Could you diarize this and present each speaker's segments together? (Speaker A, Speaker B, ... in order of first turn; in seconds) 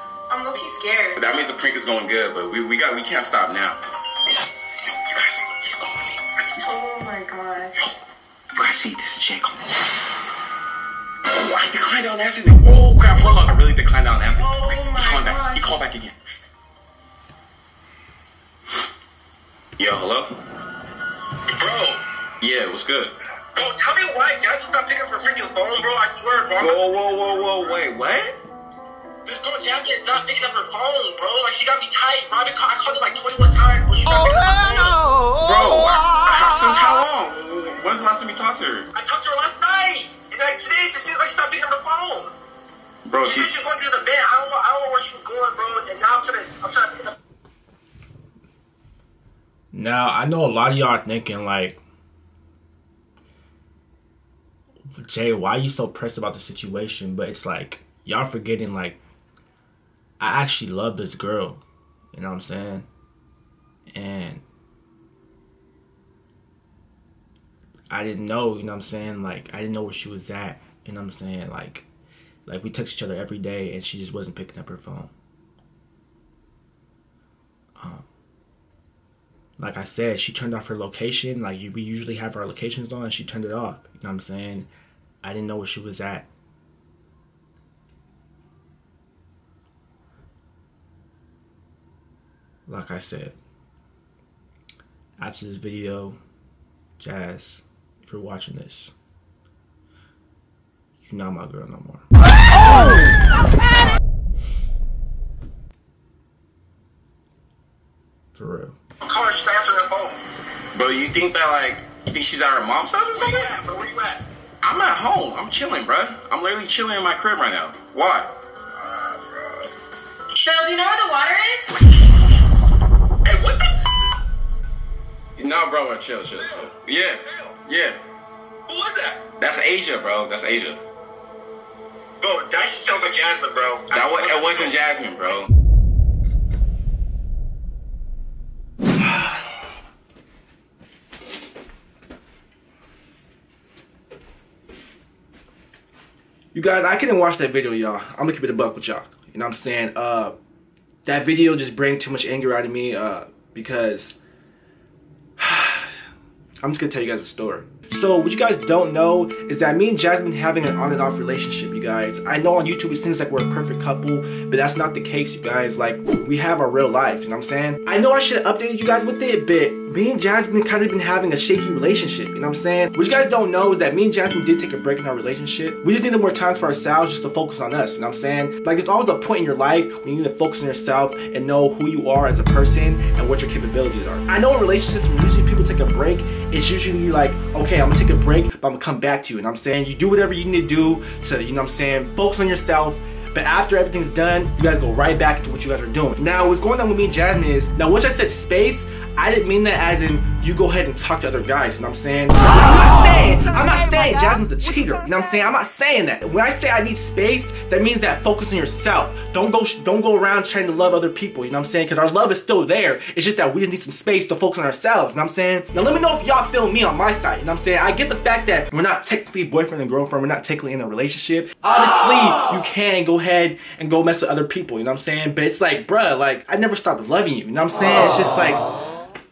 Speaker A: 0.3-1.3, 6.6-7.7, 14.3-15.8, 120.3-121.7
Speaker B: 1.1-3.8, 4.8-6.7, 8.5-9.9, 11.2-16.1, 19.8-20.4, 22.4-23.1, 26.6-28.4, 35.4-38.9, 43.1-43.5, 110.7-113.6, 114.6-118.3, 125.4-128.0, 129.3-130.8, 133.9-135.5
Speaker C: 21.5-22.0, 23.6-27.8, 29.2-35.0, 38.9-42.3, 43.2-47.1, 109.0-110.2, 113.2-114.2, 118.8-119.7, 123.3-123.7, 126.3-126.7, 127.3-127.5, 128.7-129.2, 132.2-134.7
Speaker D: 49.7-51.8, 55.0-59.0, 60.2-61.6, 62.1-62.9, 63.9-64.4, 67.9-71.9, 72.5-75.1, 77.8-78.0, 79.6-84.7, 85.2-86.3, 92.7-93.4, 95.2-96.2, 97.0-98.9, 101.0-102.0, 108.3-108.8, 146.5-150.3, 151.0-154.2, 155.4-155.9, 156.6-228.6